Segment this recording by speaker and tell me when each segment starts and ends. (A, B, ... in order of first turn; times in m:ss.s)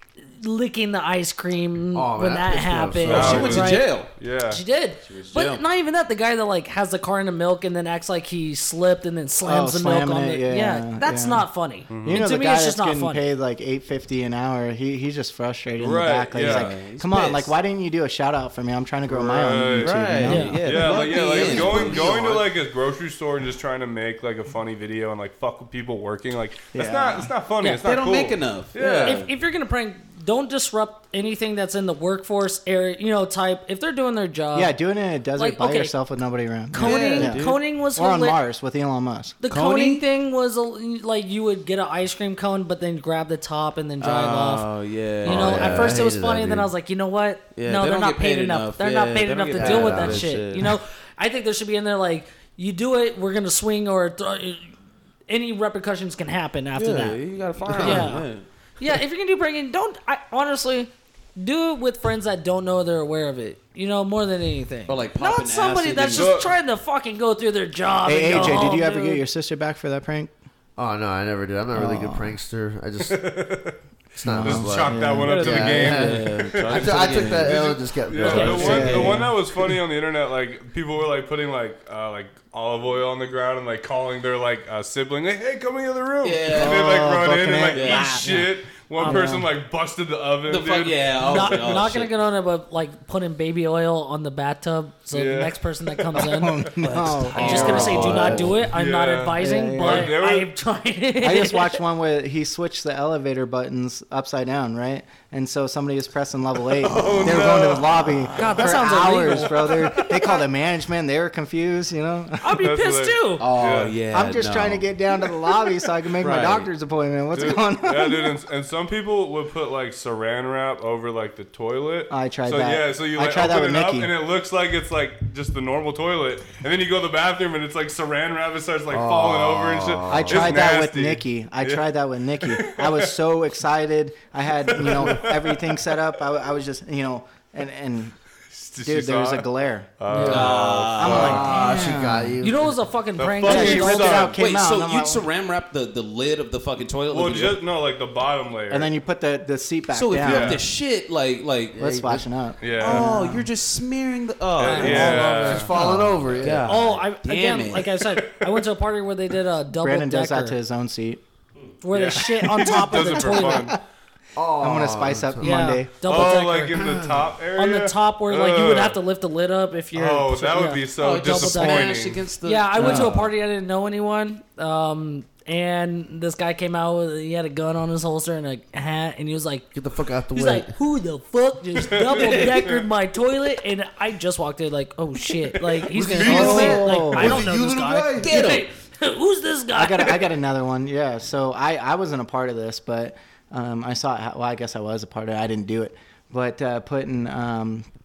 0:00.4-0:04.0 A
0:01.9-0:03.6 B
0:03.0-0:04.1 C
0:03.1-0:04.6 D
0:04.5-0:13.2 A
0:05.1-0:05.6 C
0:09.4-0:11.5 E
0:11.9-0:12.3 D
0:12.0-0:22.0 E
0:15.8-0:16.8 D
0:16.4-0:17.5 C
0:19.1-0:29.2 D
0:19.8-0:22.5 C
0:20.2-0:21.7 A
0:26.7-0:27.3 E
0:27.8-0:29.3 C
0:29.0-0:34.8 A
0:34.5-0:39.4 E
0:35.4-0:35.9 A
0:36.7-0:38.4 A
0:36.8-0:37.6 C
0:39.4-0:44.7 A
0:39.5-0:40.0 C
0:44.0-0:46.0 C
0:45.2-0:54.7 A
0:45.2-0:46.7 B
0:47.6-0:50.7 C
0:49.6-0:50.4 B
0:55.3-0:57.2 A
0:56.8-0:58.4 C
0:57.7-0:58.3 A
0:58.8-1:09.2 A
1:04.9-1:06.4 C
1:06.1-1:06.6 D
1:08.0-1:10.3 E
1:10.8-1:13.3 B
1:11.7-1:12.4 E
1:13.0-1:13.8 D
1:14.2-1:19.2 B
1:14.2-1:15.8 E
1:14.4-1:31.8 D
1:15.2-1:19.2 C
1:18.2-1:19.4 E
1:18.3-1:18.7 A
1:26.2-1:27.0 C
1:26.5-1:29.5 E
1:27.7-1:28.2 C
1:29.0-1:29.3 A
1:30.5-1:32.1 C
1:31.2-1:36.7 A
1:35.1-1:36.4 D
1:36.2-1:38.7 E
1:36.8-1:38.5 C
1:37.3-1:41.8 A
1:37.4-1:38.6 B
1:37.6-1:37.9 D
1:38.6-1:40.5 D
1:39.4-1:40.2 E
1:41.2-1:52.6 E
1:46.8-1:48.7 C
1:46.9-1:48.3 D
1:48.4-1:50.4 A
1:49.0-1:49.5 D
1:52.4-1:53.5 A
1:52.6-1:54.0 D
1:53.4-1:54.9 C
1:54.0-1:58.4 E
1:56.2-1:56.7 C
1:57.3-2:13.1 D
2:02.1-2:04.1 E
2:08.9-2:10.6 B
2:10.1-2:18.2 E
2:14.6-2:16.0 D
2:18.5-2:21.6 D
2:18.8-2:22.4 E
2:20.1-2:20.5 A
2:20.3-2:21.6 C
2:21.0-2:22.8 B
2:22.4-2:24.3 A
2:23.2-2:24.4 D
2:23.4-2:25.2 E
2:23.7-2:27.6 C
2:27.1-2:28.9 D
2:28.7-2:30.6 E
2:29.9-2:31.8 C
2:30.2-2:30.6 D
2:31.7-2:32.3 B
2:31.8-2:33.5 E
2:32.6-2:33.2 D
2:32.8-2:38.0 C
2:34.6-2:36.6 D
2:34.7-2:35.5 A
2:34.8-2:35.9 E
2:35.4-2:36.8 B
2:36.7-2:40.6 A
2:38.2-2:38.7 D
2:39.8-2:41.2 E
2:41.8-2:43.7 A
2:41.9-2:43.8 D
2:42.4-2:43.7 E
2:44.4-2:45.6 B
2:44.6-2:46.4 E
2:45.4-2:46.8 A
2:46.0-2:49.0 D
2:46.7-2:47.4 B
2:47.6-2:59.7 A
2:49.9-2:52.2 D
2:51.0-2:53.2 C
2:52.8-2:53.1 E
2:59.7-3:00.8 B
3:00.3-3:10.3 A
3:01.8-3:02.5 D
3:01.9-3:02.8 C
3:05.6-3:05.9 D
3:05.9-3:08.4 B
3:06.2-3:06.8 C
3:06.2-3:07.4 E
3:08.2-3:08.7 C
3:09.7-3:17.9 E